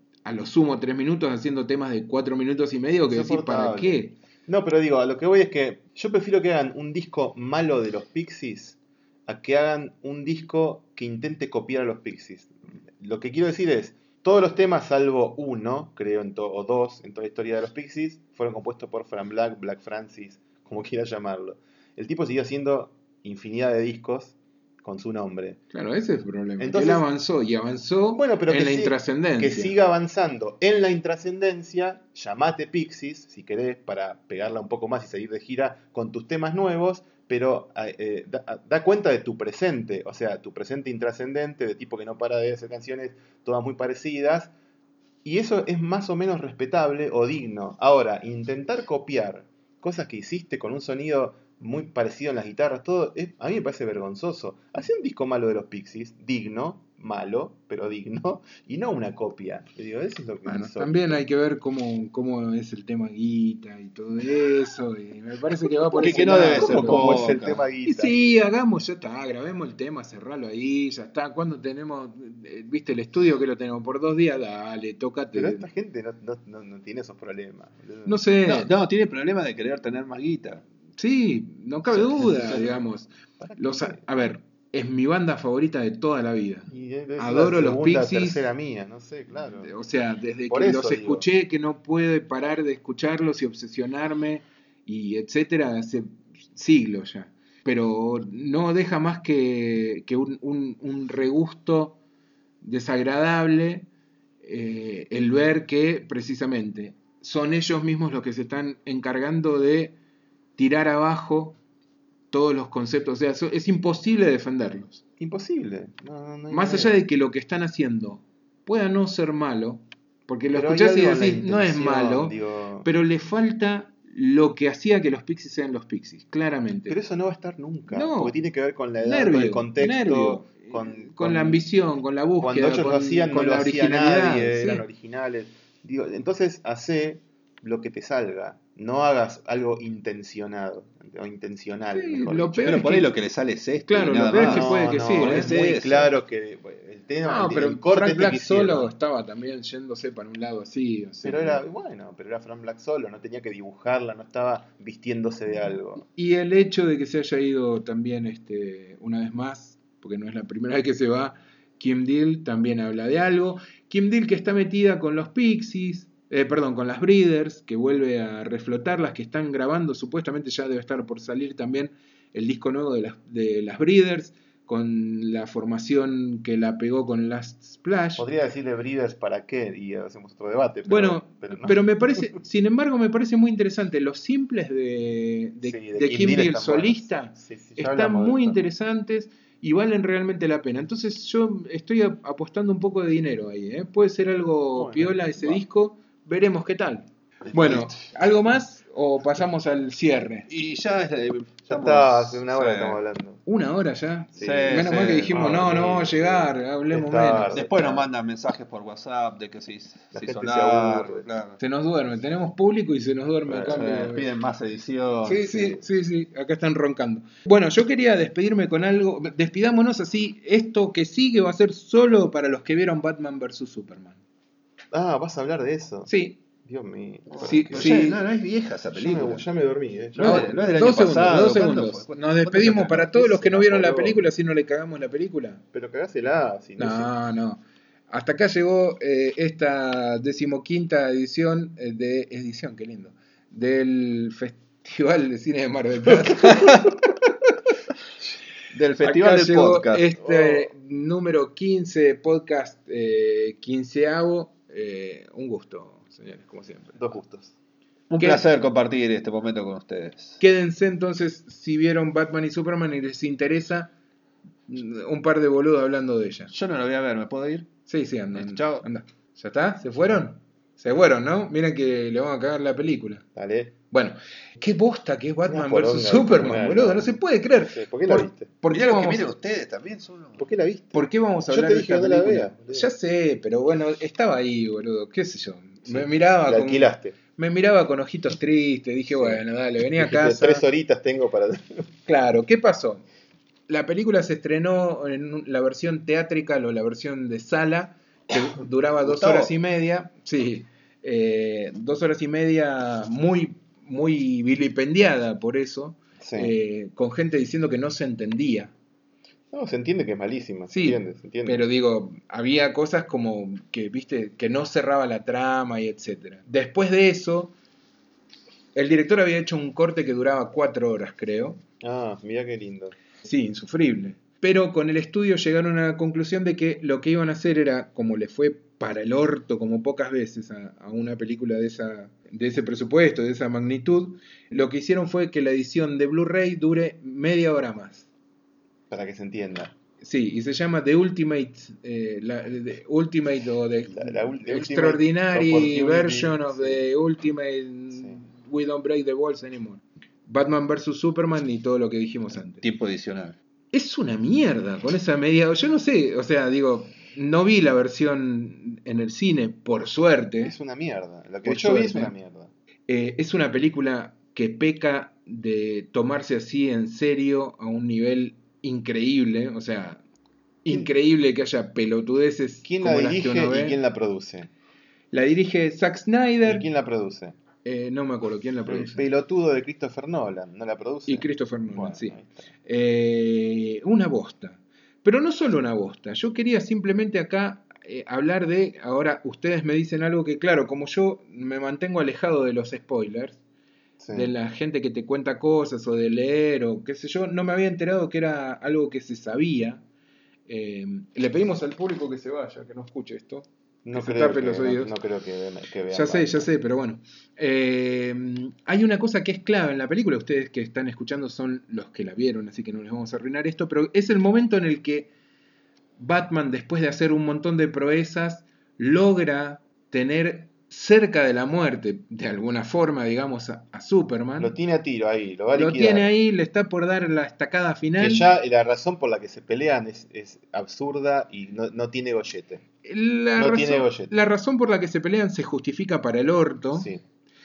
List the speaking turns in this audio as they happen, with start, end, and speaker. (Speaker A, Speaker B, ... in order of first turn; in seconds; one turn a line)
Speaker A: 0.2-4.2
Speaker B: 3.1-25.6
Speaker A: 25.7-29.7
Speaker B: 26.6-27.1
Speaker B: 28.1-44.5
Speaker B: 45.2-61.2
Speaker A: 60.5-67.2
Speaker B: 65.9-68.2
Speaker C: 66.0-67.6
Speaker A: 67.8-75.7
Speaker B: 75.3-78.2
Speaker A: 78.1-78.7
Speaker C: 78.5-80.6
Speaker A: 81.0-88.5
Speaker C: 81.9-82.7
Speaker B: 83.4-84.0
Speaker B: 86.7-89.7
Speaker A: 89.6-102.0
Speaker B: 90.5-91.3
Speaker A: 102.6-103.9
Speaker A: 104.4-110.0
Speaker A: 110.6-111.6
Speaker A: 112.3-115.0
Speaker B: 115.2-117.0
Speaker A: 116.5-127.0
Speaker B: 120.5-122.9
Speaker B: 126.9-131.7
Speaker A: 127.9-128.3
Speaker A: 129.0-134.8
Speaker B: 132.4-142.8
Speaker A: 141.9-143.1
Speaker C: 142.6-146.1
Speaker A: 143.9-145.7
Speaker B: 144.3-148.9
Speaker A: 147.2-151.6
Speaker B: 151.2-156.1
Speaker A: 156.2-178.3
Speaker B: 178.2-182.2
Speaker A: 180.9-200.5
Speaker B: 185.6-188.6
Speaker B: 194.8-195.6
Speaker B: 197.5-197.9
Speaker C: 200.5-203.0
Speaker B: 201.7-203.4
Speaker A: 203.5-207.6
Speaker B: 204.3-208.1
Speaker C: 204.4-205.6
Speaker C: 207.5-211.6
Speaker B: 210.1-211.3
Speaker A: 211.6-214.3
Speaker B: 213.5-214.1
Speaker C: 213.5-215.8
Speaker A: 215.3-224.2
Speaker B: 224.9-226.1
Speaker A: 226.1-226.4
Speaker B: 226.6-228.1
Speaker C: 227.3-229.4
Speaker A: 227.4-228.2
Speaker B: 229.0-231.5
Speaker C: 230.2-233.5
Speaker A: 230.2-235.6
Speaker B: 233.2-234.3
Speaker B: 235.7-237.1
Speaker A: 236.8-246.9
Speaker C: 246.4-246.9
Speaker C: 248.7-250.1
Speaker A: 249.0-257.0
Speaker B: 250.2-250.7
Speaker B: 257.0-257.5
Speaker C: 258.1-260.4
Speaker A: 260.4-263.9
Speaker A: 264.7-266.5
Speaker C: 266.5-267.7
Speaker A: 267.9-273.2
Speaker C: 268.3-268.9
Speaker B: 273.4-273.8
Speaker A: 273.9-279.3
Speaker B: 275.5-278.5
Speaker C: 278.7-280.4
Speaker B: 280.4-282.9
Speaker A: 280.9-290.6
Speaker B: 285.9-287.2
Speaker B: 289.1-289.4
Speaker B: 290.0-291.9
Speaker A: 292.1-293.1
Speaker A: 293.7-308.7
Speaker C: 299.0-299.5
Speaker B: 306.2-306.5
Speaker B: 309.5-311.6
Speaker A: 310.7-317.5
Speaker A: 318.8-321.6
Speaker B: 321.8-323.0
Speaker A: 323.2-338.1
Speaker B: 338.9-339.8
Speaker A: 340.0-352.6
Speaker B: 343.9-346.8
Speaker C: 352.6-353.4
Speaker A: 353.7-360.6
Speaker B: 360.4-362.5
Speaker A: 361.4-362.1
Speaker A: 362.9-370.0
Speaker A: 370.6-373.8
Speaker B: 372.6-374.5
Speaker A: 375.1-376.7
Speaker B: 376.5-377.4
Speaker A: 377.6-379.1
Speaker B: 378.7-382.4
Speaker A: 381.1-393.4
Speaker B: 394.0-394.3
Speaker A: 394.1-399.8
Speaker A: 400.5-404.9
Speaker B: 403.9-406.5
Speaker A: 405.9-415.1
Speaker A: 416.0-424.5
Speaker B: 424.4-426.1
Speaker A: 425.5-428.3
Speaker B: 428.0-432.6
Speaker A: 432.8-436.9
Speaker B: 433.4-434.1
Speaker B: 436.8-437.0